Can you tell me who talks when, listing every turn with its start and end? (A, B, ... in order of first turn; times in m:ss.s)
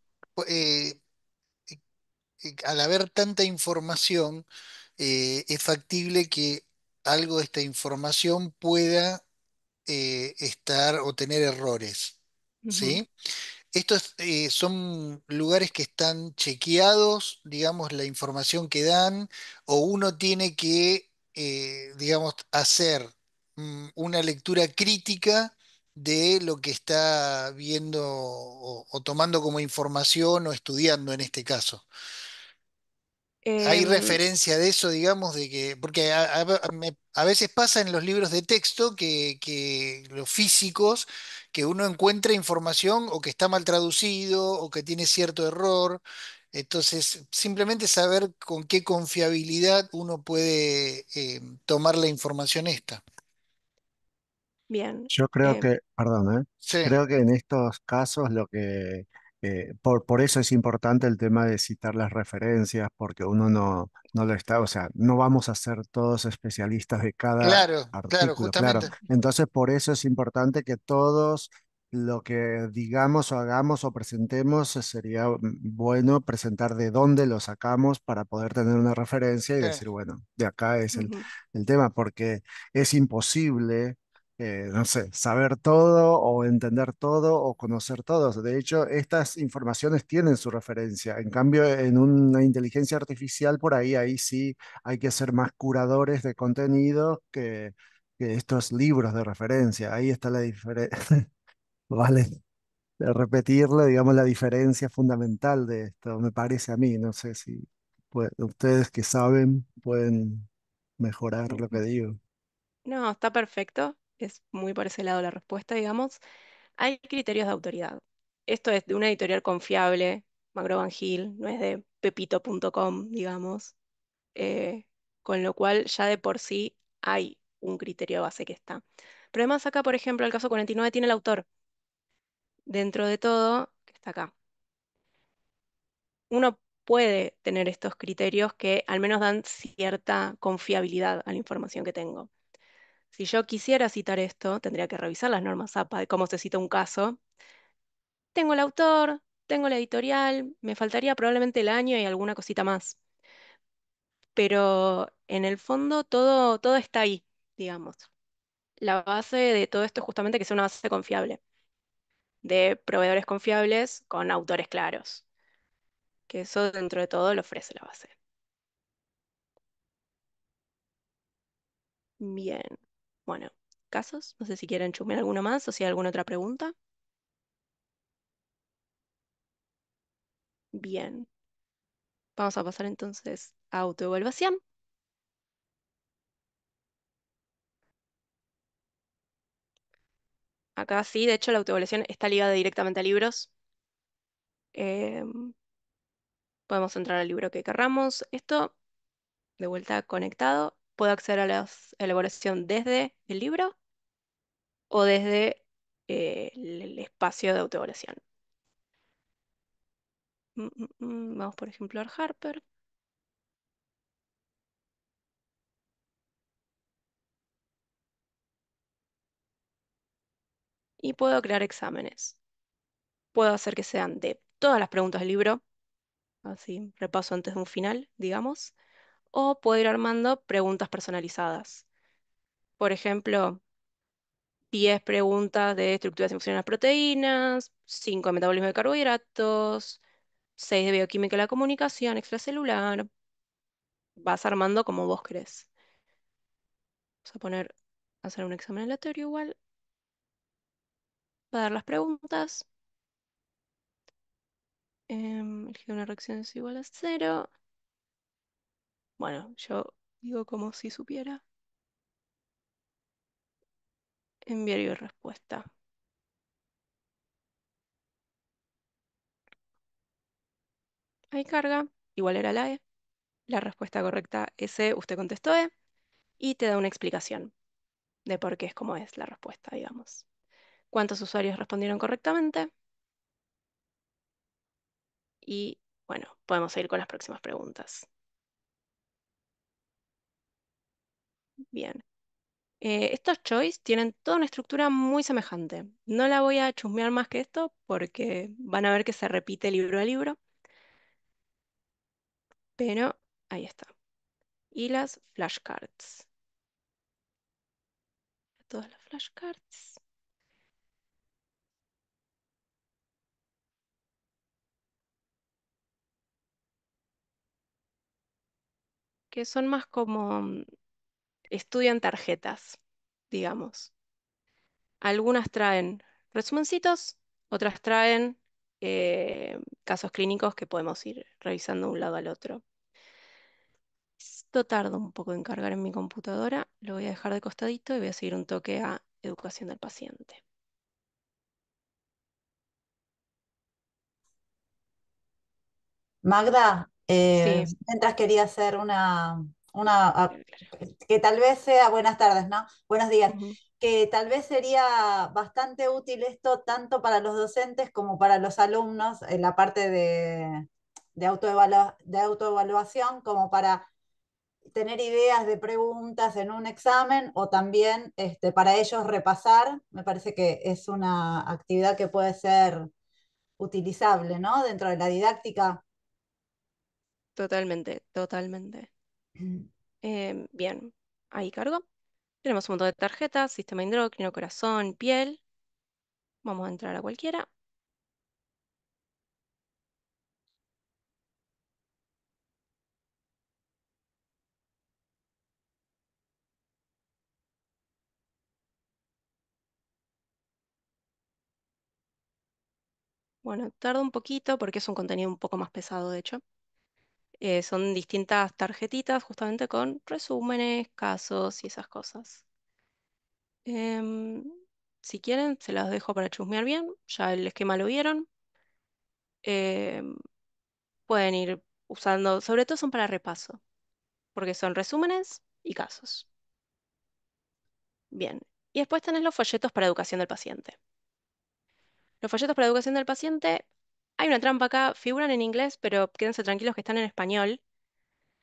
0:00.4-0:01.0 A
0:02.4-0:04.5 A
0:05.0-0:09.2 A
0:09.9-0:12.2 A
0:12.6-0:13.0 B
0:12.7-0:13.1 A
0:13.7-0:31.9 A
0:33.4-0:34.2 B
0:33.6-0:46.0 A
0:46.5-0:53.0 A
0:54.7-0:55.6 B
0:55.1-1:41.3 C
0:56.7-0:57.0 A
1:07.4-1:08.9 A
1:20.9-1:21.3 B
1:41.9-1:42.4 C
1:43.0-1:50.5 C
1:51.0-1:52.2 C
1:51.5-1:51.8 B
1:52.9-1:56.2 B
1:56.8-2:03.7 B
2:04.4-2:11.5 B
2:12.7-2:14.3 B
2:16.3-2:22.3 B
2:23.1-2:27.2 B
2:28.4-2:33.0 B
2:34.4-2:38.1 B
2:38.8-2:41.4 B
2:42.4-2:45.2 B
2:46.3-2:48.1 B
2:52.2-2:56.7 B
3:00.7-3:01.3 B
3:02.4-3:04.6 B
3:10.8-3:13.5 B
3:14.7-3:15.5 B
3:16.7-3:18.7 B
3:19.6-3:23.8 B
3:24.9-3:28.2 B
3:30.6-3:32.6 B
3:41.0-3:42.4 B
3:43.3-3:45.6 B
3:46.4-3:48.7 B
3:49.3-3:51.9 B
3:52.8-3:53.6 B
3:54.7-4:00.0 B
4:00.6-4:03.1 B
4:04.2-4:05.7 B
4:07.2-4:07.7 B
4:08.2-4:09.6 B
4:11.5-4:12.6 B
4:15.1-4:17.5 B
4:19.2-4:21.4 B
4:24.5-4:25.7 B
4:31.3-4:32.8 B
4:33.5-4:35.7 B
4:36.4-4:37.5 B
4:38.3-4:40.2 B
4:40.9-4:42.7 B
4:45.4-4:48.1 B
4:51.7-4:52.0 B
4:52.8-5:00.4 B
5:02.8-5:03.9 B
5:04.7-5:06.3 B
5:08.7-5:10.0 B
5:19.3-5:20.6 B
5:21.5-5:22.8 B
5:23.3-5:23.9 B
5:25.0-5:32.6 B
5:34.2-5:40.4 B
5:46.2-6:03.9 D
5:47.4-5:47.7 B
5:53.3-5:53.6 B
6:04.7-6:12.9 D
6:13.6-6:15.8 D
6:17.4-6:18.9 B
6:19.4-6:19.7 D
6:20.0-6:21.8 B
6:22.4-6:25.4 B
6:26.4-6:27.5 B
6:43.4-6:46.4 B
6:47.4-6:52.4 B
6:53.7-6:58.3 B
6:59.4-7:00.1 B
7:01.1-7:03.6 B
7:04.4-7:06.3 B
7:08.1-7:10.8 B
7:12.2-7:13.7 B
7:14.2-7:17.6 B